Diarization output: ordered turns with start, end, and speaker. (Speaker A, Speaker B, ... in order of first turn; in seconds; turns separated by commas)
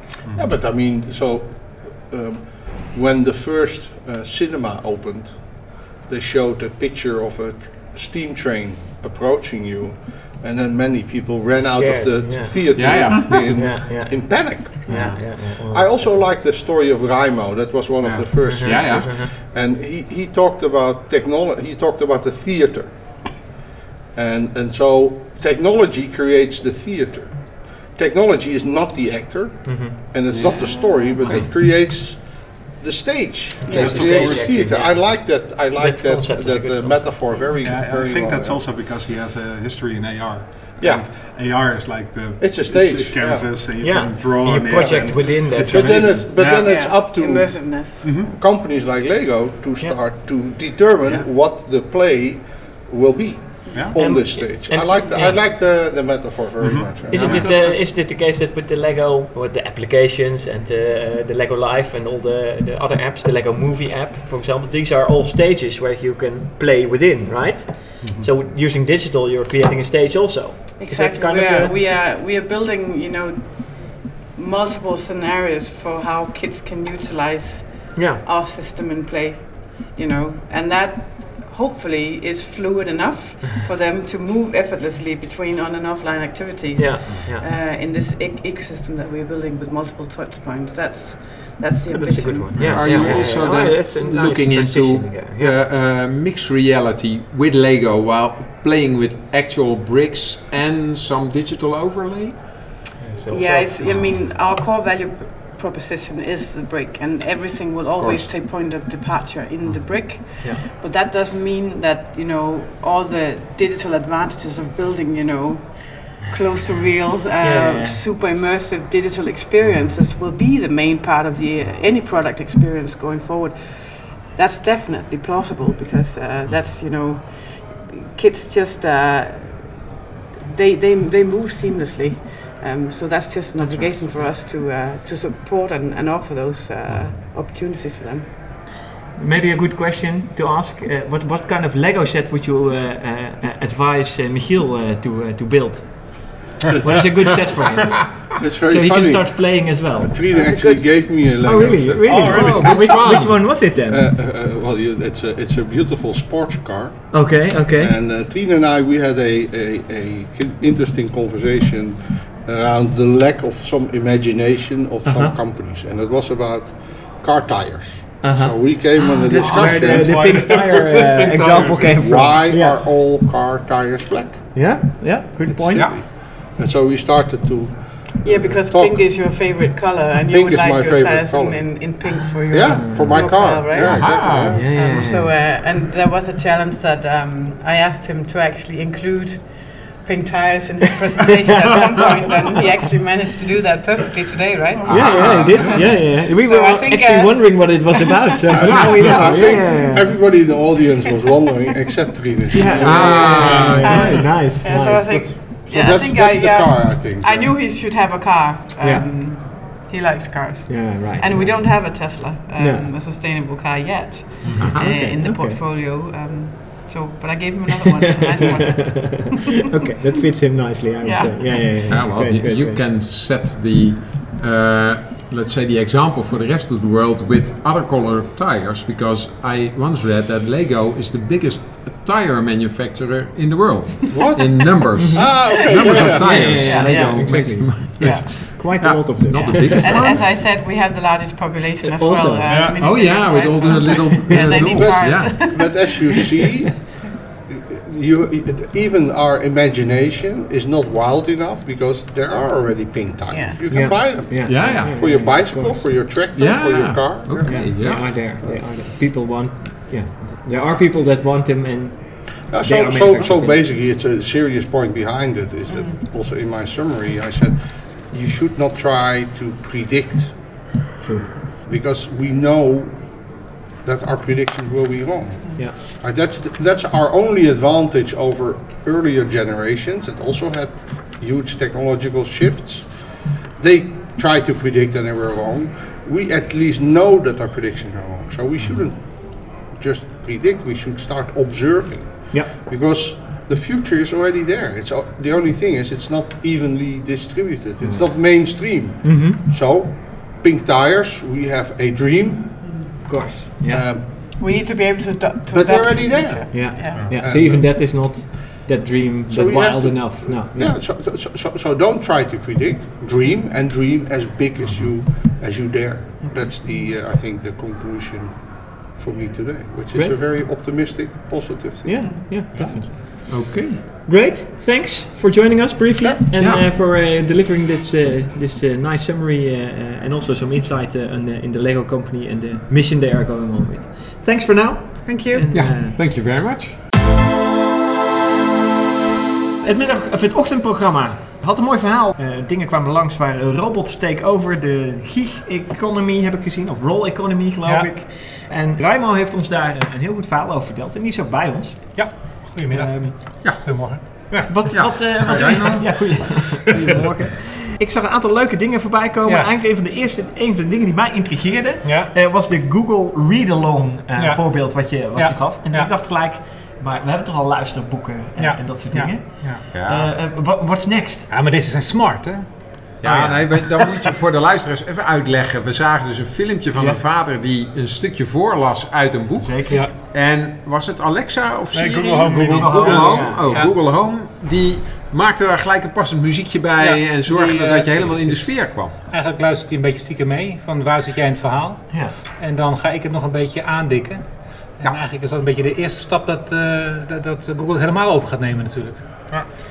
Speaker A: 0.3-23.4, Speaker B: 11.6-12.8, Speaker C: 12.7-13.9, Speaker B: 13.5-16.1, Speaker D: 14.9-15.2, Speaker D: 18.0-18.3, Speaker B: 18.4-19.3, Speaker C: 18.6-19.3, Speaker A: 24.1-38.6, Speaker B: 29.6-31.4, Speaker C: 30.3-31.5, Speaker E: 33.6-34.0, Speaker B: 33.7-37.5, Speaker D: 33.7-34.9, Speaker D: 37.6-47.0, Speaker A: 40.8-41.1, Speaker A: 42.4-43.7, Speaker B: 43.8-46.3, Speaker A: 44.7-57.5, Speaker E: 46.4-48.4, Speaker D: 48.0-48.3, Speaker E: 53.7-54.0, Speaker B: 54.0-55.4, Speaker D: 56.6-57.5, Speaker B: 57.1-71.8, Speaker E: 57.2-57.9, Speaker D: 68.0-68.3, Speaker E: 70.8-93.3, Speaker B: 77.9-78.2, Speaker B: 86.8-87.5, Speaker B: 91.9-95.5, Speaker D: 92.5-92.9, Speaker C: 92.6-102.6, Speaker B: 103.0-104.1, Speaker E: 103.3-129.9, Speaker B: 108.0-108.3, Speaker B: 110.4-110.7, Speaker B: 117.4-118.1, Speaker E: 130.4-138.3, Speaker B: 133.6-134.3, Speaker B: 139.2-154.1, Speaker A: 146.7-170.6, Speaker C: 152.1-153.5, Speaker D: 152.1-153.0, Speaker B: 157.1-157.9, Speaker B: 165.1-165.4, Speaker B: 168.2-172.8, Speaker D: 169.3-172.4, Speaker A: 172.0-179.2, Speaker B: 174.5-176.0, Speaker E: 178.2-198.0, Speaker A: 180.3-181.9, Speaker A: 182.5-184.7, Speaker B: 182.7-183.2, Speaker C: 183.8-185.3, Speaker B: 184.5-185.3, Speaker C: 194.9-196.1, Speaker B: 194.9-200.2, Speaker A: 198.5-207.5, Speaker C: 198.6-199.5, Speaker B: 202.5-205.4, Speaker E: 202.8-203.2, Speaker C: 202.8-204.4, Speaker D: 203.4-204.1, Speaker E: 203.8-220.1, Speaker B: 208.8-209.1, Speaker B: 210.7-212.0, Speaker B: 212.6-212.9, Speaker D: 214.4-214.8, Speaker C: 214.6-215.1, Speaker B: 214.6-215.6, Speaker B: 218.0-222.8, Speaker E: 221.0-221.8, Speaker C: 221.9-240.4, Speaker A: 234.1-236.5, Speaker B: 234.9-235.3, Speaker E: 235.3-238.4, Speaker B: 236.1-240.3, Speaker E: 239.5-246.2, Speaker B: 241.8-242.8, Speaker D: 242.4-242.8, Speaker C: 242.8-245.9, Speaker B: 244.1-244.6, Speaker A: 244.6-246.9, Speaker A: 247.5-258.1, Speaker E: 253.3-253.8, Speaker B: 253.7-255.9, Speaker C: 254.4-255.3, Speaker C: 256.2-258.2, Speaker B: 257.4-263.7, Speaker A: 262.3-270.9, Speaker E: 265.7-266.0, Speaker B: 271.0-271.4, Speaker A: 271.5-302.8, Speaker D: 288.6-288.9, Speaker B: 292.3-292.6, Speaker B: 297.8-299.4, Speaker E: 302.6-303.1, Speaker B: 303.1-303.9, Speaker A: 303.6-304.4, Speaker E: 304.1-307.2, Speaker A: 305.5-308.6, Speaker B: 306.5-310.8, Speaker D: 306.9-307.3, Speaker A: 309.3-322.8, Speaker D: 314.6-314.9, Speaker B: 319.9-320.2, Speaker B: 321.8-336.0, Speaker E: 322.0-322.4, Speaker D: 322.5-322.8, Speaker C: 323.3-323.8, Speaker A: 326.0-326.5, Speaker C: 326.4-326.7, Speaker E: 335.0-335.5, Speaker C: 335.5-336.8, Speaker B: 339.6-352.1, Speaker F: 347.6-347.9, Speaker F: 351.9-354.4, Speaker B: 352.7-353.2, Speaker C: 353.4-356.3, Speaker D: 354.3-354.9, Speaker B: 354.5-371.3, Speaker F: 355.4-355.8, Speaker F: 359.2-359.5, Speaker F: 361.8-362.1, Speaker F: 364.2-365.9, Speaker F: 368.4-369.6, Speaker C: 369.7-370.1, Speaker F: 371.3-373.1, Speaker C: 373.0-389.0, Speaker B: 373.0-373.5, Speaker B: 376.7-377.0, Speaker B: 379.4-379.9, Speaker D: 381.7-383.3, Speaker B: 382.3-383.6, Speaker F: 382.9-383.8, Speaker F: 386.8-399.4, Speaker B: 391.9-392.2